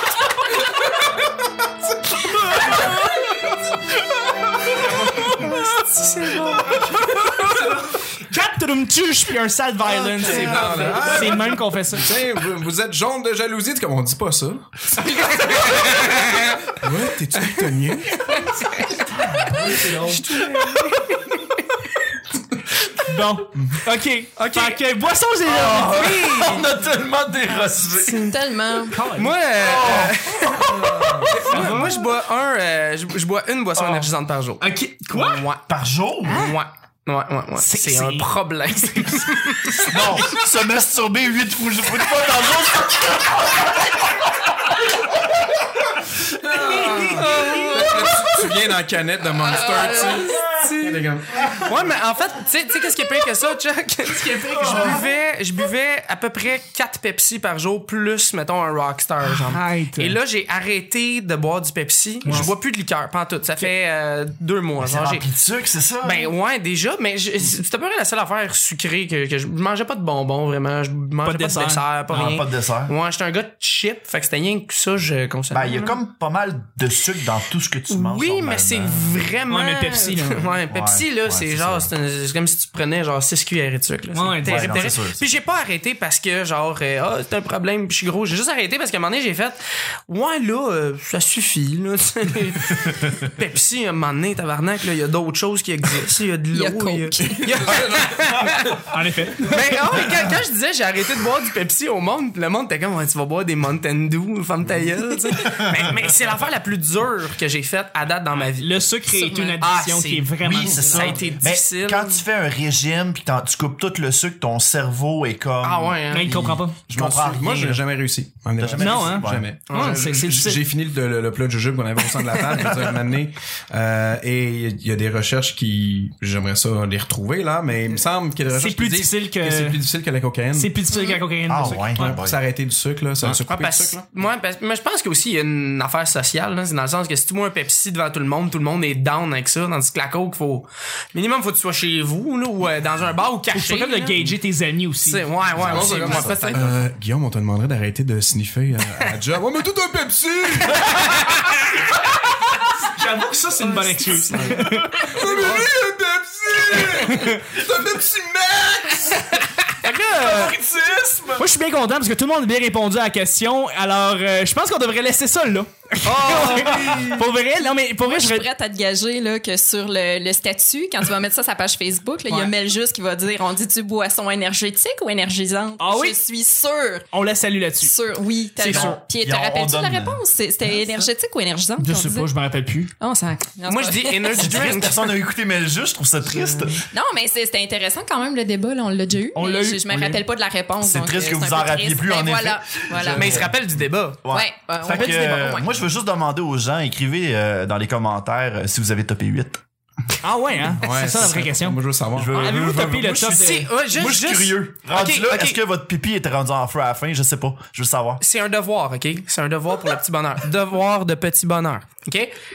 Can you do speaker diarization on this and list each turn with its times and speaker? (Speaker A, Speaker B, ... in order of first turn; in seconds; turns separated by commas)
Speaker A: 4.8-7.4, Speaker B: 7.4-12.1, Speaker A: 10.0-11.4, Speaker C: 10.2-14.7, Speaker A: 15.0-16.7, Speaker C: 16.8-18.4, Speaker B: 19.1-20.3, Speaker A: 19.9-21.6, Speaker B: 23.0-26.0, Speaker A: 24.4-24.8, Speaker D: 25.4-28.4, Speaker A: 25.7-26.7, Speaker A: 27.9-28.4, Speaker E: 28.3-29.0, Speaker B: 28.9-29.3, Speaker A: 28.9-35.7, Speaker D: 29.5-31.3, Speaker C: 30.9-31.8, Speaker B: 31.4-32.0, Speaker B: 34.6-35.5, Speaker D: 35.7-36.4, Speaker A: 36.2-40.2, Speaker B: 36.3-36.6, Speaker B: 37.6-39.3, Speaker D: 39.9-44.0, Speaker B: 46.4-48.0, Speaker C: 46.4-51.5, Speaker A: 47.0-48.3, Speaker A: 49.5-51.0, Speaker A: 51.5-65.3, Speaker B: 54.1-55.0, Speaker B: 59.4-60.2, Speaker B: 62.2-62.5, Speaker D: 64.8-66.3, Speaker A: 66.0-76.0, Speaker B: 71.2-71.8, Speaker D: 72.1-72.9, Speaker D: 75.5-79.2, Speaker A: 77.9-98.8, Speaker B: 79.5-80.5, Speaker D: 80.7-81.9, Speaker B: 84.1-84.9, Speaker D: 84.4-85.2, Speaker E: 96.5-97.5, Speaker C: 97.3-98.5, Speaker B: 98.8-100.0, Speaker A: 99.4-112.2, Speaker B: 108.6-111.3, Speaker E: 109.2-109.5, Speaker D: 110.4-117.8, Speaker A: 115.6-116.4, Speaker B: 116.1-116.8, Speaker C: 116.9-130.7, Speaker D: 118.6-119.5, Speaker B: 118.8-120.6, Speaker A: 119.7-120.0, Speaker B: 128.5-129.8, Speaker B: 130.5-132.2, Speaker D: 131.5-132.4, Speaker C: 131.9-134.0, Speaker A: 133.4-144.3, Speaker B: 143.5-145.3, Speaker A: 145.0-146.8, Speaker C: 145.5-150.9, Speaker D: 145.6-146.6, Speaker A: 150.7-151.5, Speaker B: 152.8-155.1, Speaker A: 153.6-154.6, Speaker C: 154.3-159.4, Speaker D: 155.2-155.6, Speaker B: 156.9-157.4, Speaker B: 159.8-160.6, Speaker D: 160.1-161.4, Speaker B: 161.4-168.5, Speaker D: 166.1-167.1, Speaker A: 166.2-166.9, Speaker E: 167.6-177.1, Speaker B: 175.8-176.2, Speaker B: 177.1-177.9, Speaker E: 177.8-182.3, Speaker B: 178.6-179.0, Speaker D: 178.6-180.2, Speaker B: 181.8-182.9, Speaker E: 183.0-184.7, Speaker A: 183.7-185.1, Speaker D: 184.4-186.9, Speaker A: 186.4-186.7, Speaker E: 186.9-193.5, Speaker B: 189.3-190.2, Speaker D: 190.8-193.5, Speaker A: 193.1-194.2, Speaker D: 194.2-199.6, Speaker E: 194.3-195.7, Speaker B: 200.2-203.7, Speaker C: 200.8-202.3, Speaker D: 202.1-208.2, Speaker A: 203.3-205.6, Speaker A: 208.2-212.3